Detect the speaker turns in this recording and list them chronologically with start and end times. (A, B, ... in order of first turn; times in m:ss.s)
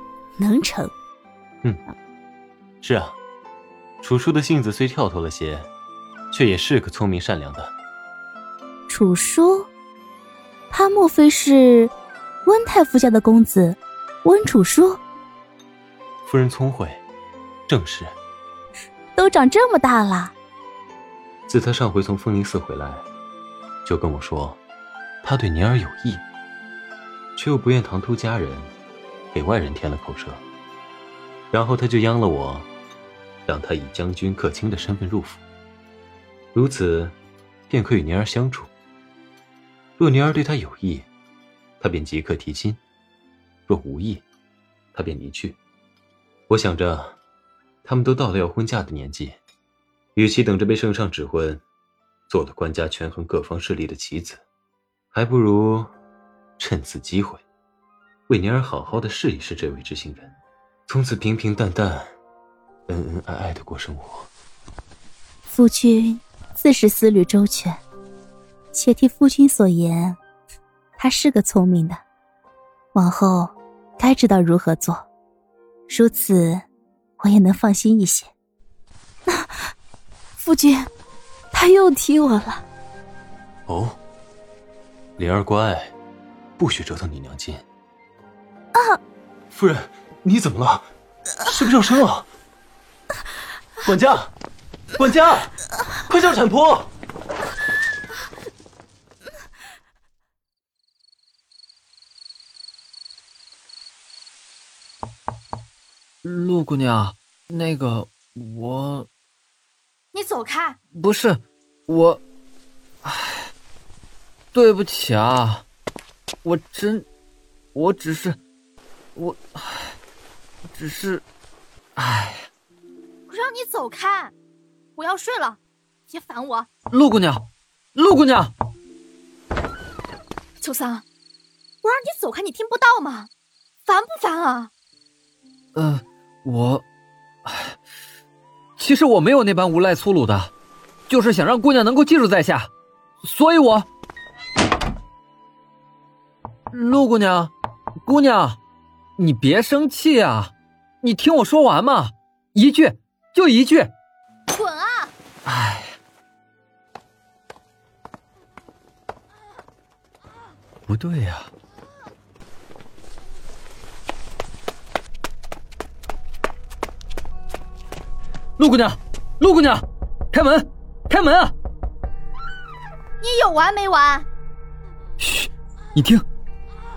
0:00.4-0:00.9 A
0:02.8-0:03.2 B
0:04.0-0:05.7 B
0:06.3-0:07.7 B
0:08.9-0:09.7 A
0:10.7-0:11.9 A
0:12.4-0:15.0 A
0:16.3-0:17.0 B
0:17.7-0:18.2 B
0:19.2-0:20.3 A
0:21.5-0:23.0 B
0:23.8-0:24.6 B
0:25.2-0:26.2 B
0:27.4-0:28.7 B
0:29.3-0:30.4 B
0:31.5-0:32.7 B
0:33.5-0:35.4 B
0:36.5-0:37.2 B
0:37.7-0:38.7 B
0:40.0-0:41.1 B
0:41.8-0:42.8 B
0:43.7-0:44.2 B
0:45.0-0:45.6 B
0:46.5-0:47.2 B
0:47.8-0:49.4 B
0:50.2-0:51.6 B
0:52.3-0:54.4 B
0:55.1-0:55.9 B
0:56.6-0:57.4 B
0:58.3-1:00.3 B
1:00.9-1:02.1 B
1:02.9-1:04.3 B
1:05.5-1:07.8 A
1:08.7-1:10.2 A
1:11.0-1:12.0 A
1:12.9-1:15.1 A
1:15.9-1:16.6 A
1:17.2-1:18.3 A
1:19.3-1:19.6 A
1:20.4-1:20.9 A
1:21.5-1:22.6 A
1:23.7-1:24.0 B
1:25.2-1:25.9 B
1:26.6-1:27.6 B
1:29.5-1:32.3 B
1:33.8-1:34.3 B
1:35.0-1:36.9 B
1:46.2-1:49.1 C
1:50.1-1:50.8 D
1:50.9-1:52.2 C
1:53.0-1:53.5 C
1:54.5-1:55.6 C
1:56.4-1:57.1 C
1:57.7-1:58.4 C
1:59.2-2:00.0 C
2:00.7-2:01.2 C
2:02.0-2:02.5 C
2:03.3-2:04.3 D
2:05.0-2:06.7 D
2:06.9-2:08.5 C
2:10.6-2:11.0 D
2:11.8-2:13.3 D
2:13.9-2:14.7 D
2:15.8-2:16.8 C
2:17.4-2:17.8 C
2:18.8-2:20.5 C
2:21.1-2:22.7 C
2:23.2-2:23.9 C
2:26.7-2:27.5 C
2:28.1-2:28.6 C
2:29.2-2:33.9 C
2:34.5-2:35.1 D
2:35.5-2:36.0 C
2:40.9-2:41.5 C
2:48.6-2:51.5 C
2:53.2-2:54.3 D
2:55.2-2:56.2 C